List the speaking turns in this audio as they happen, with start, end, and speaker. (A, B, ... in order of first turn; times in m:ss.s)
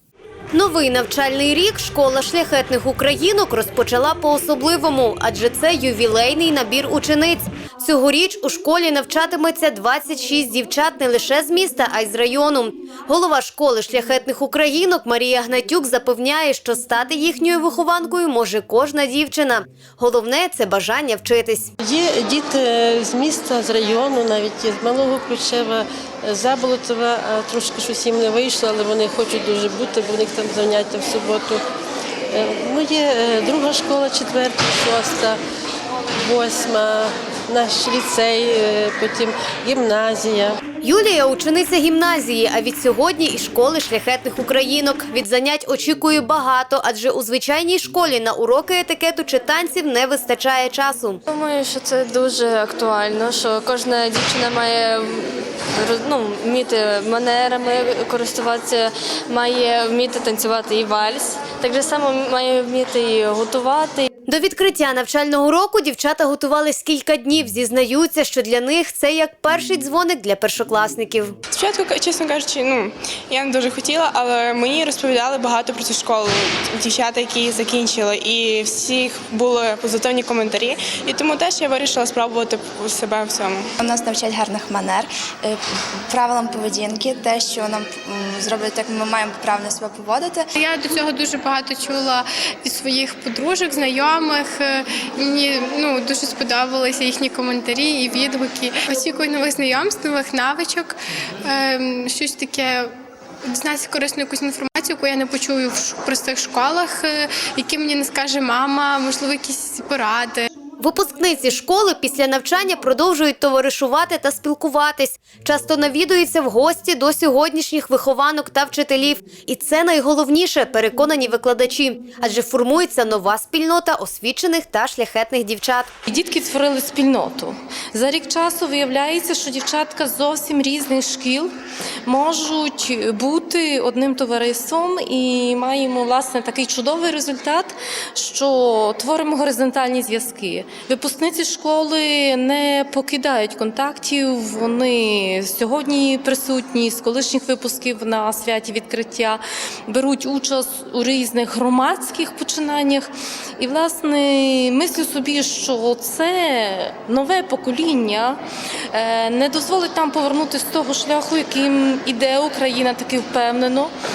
0:00.5-0:21.7 A
0:21.8-0:31.6 B
0:32.3-0:35.4 B
0:36.2-0:40.6 B
0:40.8-0:51.2 A
0:51.3-1:04.1 C
1:04.3-1:11.3 A
1:11.5-1:23.6 D
1:23.8-1:30.4 E
1:30.6-1:42.9 F
1:43.5-1:50.5 F
1:50.8-2:05.9 A
2:06.1-2:11.5 G
2:12.1-2:38.4 G
2:38.9-2:43.9 G